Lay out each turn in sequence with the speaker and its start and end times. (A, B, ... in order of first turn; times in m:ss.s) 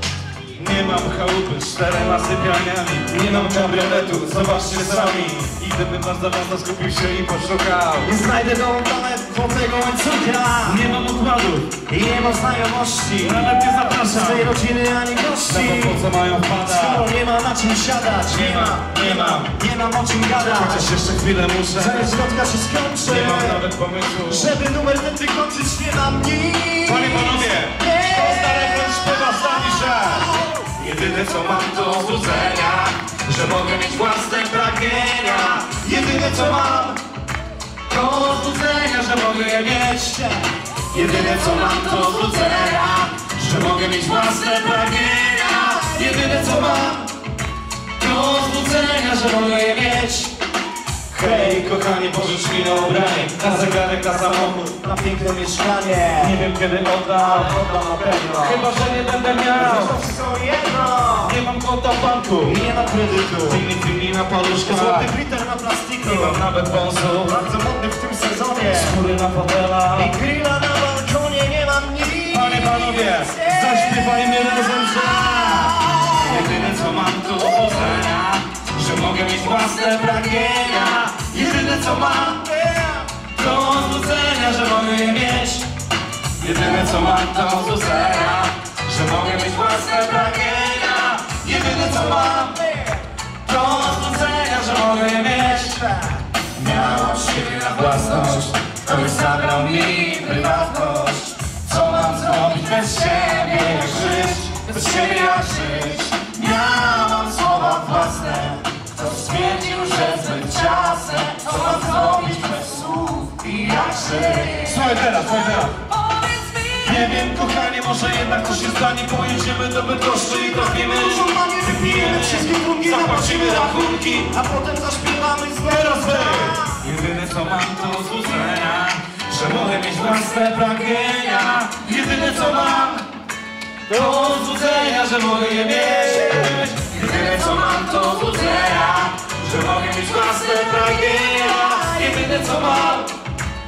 0:00.6-0:08.1 A
0:08.0-0:10.8 B
0:10.6-0:11.7 A
0:11.8-0:16.0 B
0:13.2-0:14.5 A
0:15.4-0:17.0 A
0:16.6-0:20.9 B
0:18.2-0:19.6 A
0:20.4-0:22.2 A
0:21.7-0:23.6 B
0:23.0-0:24.6 A
0:24.2-0:29.1 B
0:26.8-0:37.0 A
0:37.9-0:40.3 A
0:40.9-0:47.1 A
0:48.0-0:50.3 A
0:51.1-0:54.7 A
0:54.3-0:56.4 B
0:56.2-0:57.6 A
0:57.1-0:58.6 B
0:58.4-1:00.0 A
0:59.5-1:01.4 B
1:01.2-1:02.6 A
1:02.4-1:03.6 B
1:03.4-1:05.1 A
1:04.6-1:06.4 B
1:06.0-1:07.3 A
1:07.3-1:09.0 B
1:08.7-1:10.1 A
1:09.9-1:14.1 B
1:12.3-1:22.8 A
1:23.3-1:25.7 A
1:26.4-1:32.6 A
1:33.4-1:36.0 A
1:36.5-1:53.4 A
1:53.4-1:54.8 B
1:54.6-2:04.3 A
2:00.4-2:06.8 B
2:05.6-2:13.0 A
2:13.9-2:23.1 A